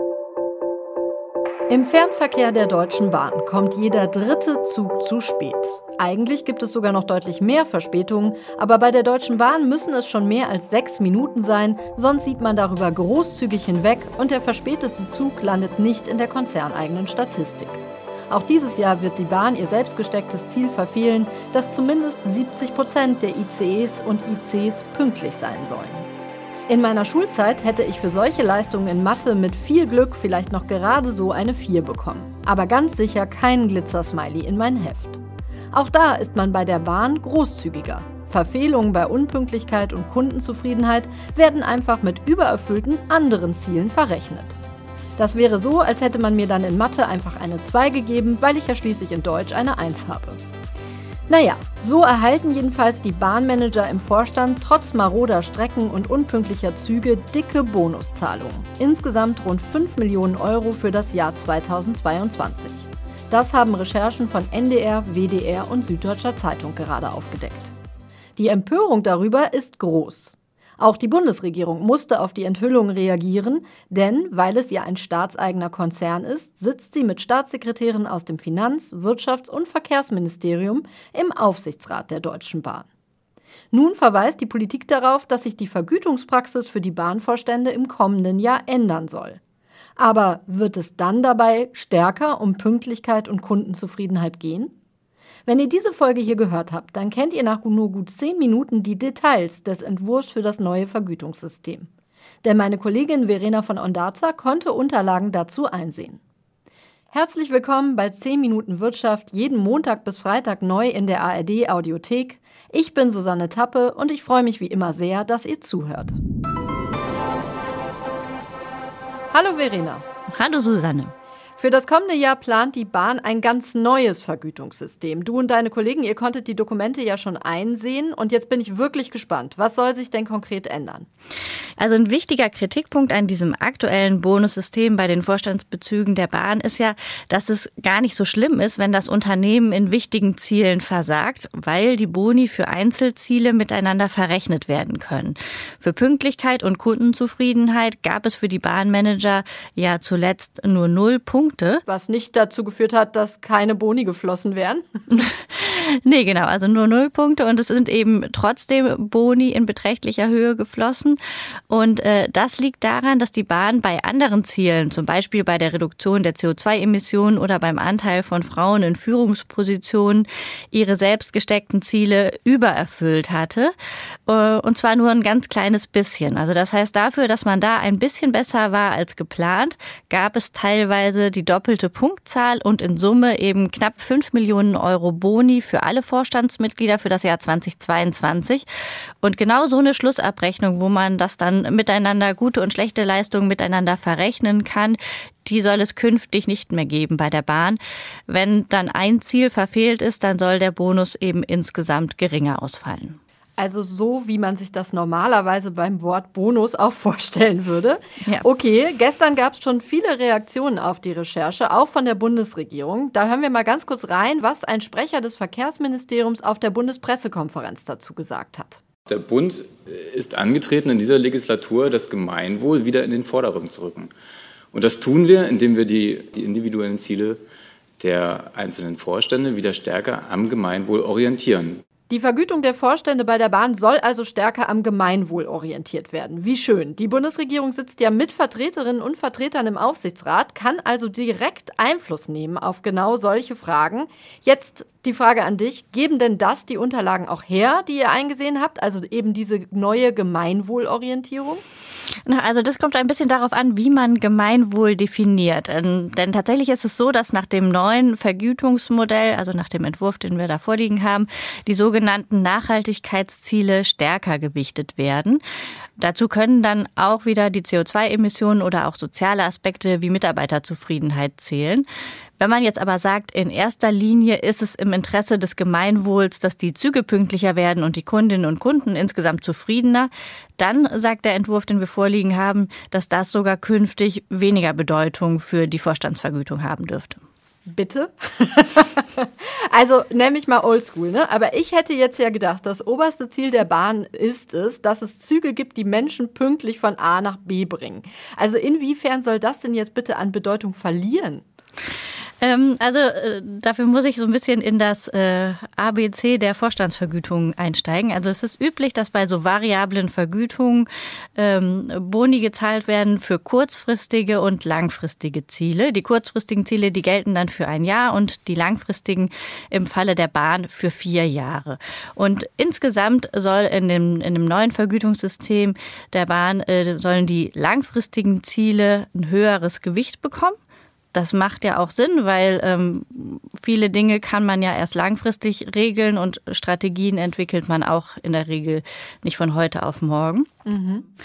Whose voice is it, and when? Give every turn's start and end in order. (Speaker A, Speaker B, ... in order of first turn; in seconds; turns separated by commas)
Speaker A: 1.7-26.1, Speaker A: 26.7-35.2, Speaker A: 35.7-44.6, Speaker A: 45.2-50.4, Speaker A: 51.3-67.7, Speaker A: 68.3-82.9, Speaker A: 83.7-89.4, Speaker A: 90.0-94.7, Speaker A: 95.5-101.9, Speaker A: 102.4-106.2, Speaker A: 107.1-116.2, Speaker A: 119.3-120.0, Speaker B: 120.3-121.1, Speaker A: 121.6-131.1, Speaker B: 131.8-151.8, Speaker A: 151.9-155.2, Speaker B: 155.2-161.2, Speaker B: 161.7-173.7, Speaker B: 174.3-188.6, Speaker B: 189.2-203.2, Speaker A: 203.6-218.8, Speaker C: 219.1-224.1, Speaker C: 224.7-227.4, Speaker C: 228.0-231.8, Speaker A: 232.1-251.6, Speaker B: 252.2-265.4, Speaker B: 266.0-271.9, Speaker B: 272.4-287.2, Speaker A: 287.6-301.4, Speaker B: 302.4-330.6, Speaker B: 331.1-340.5, Speaker A: 340.6-341.1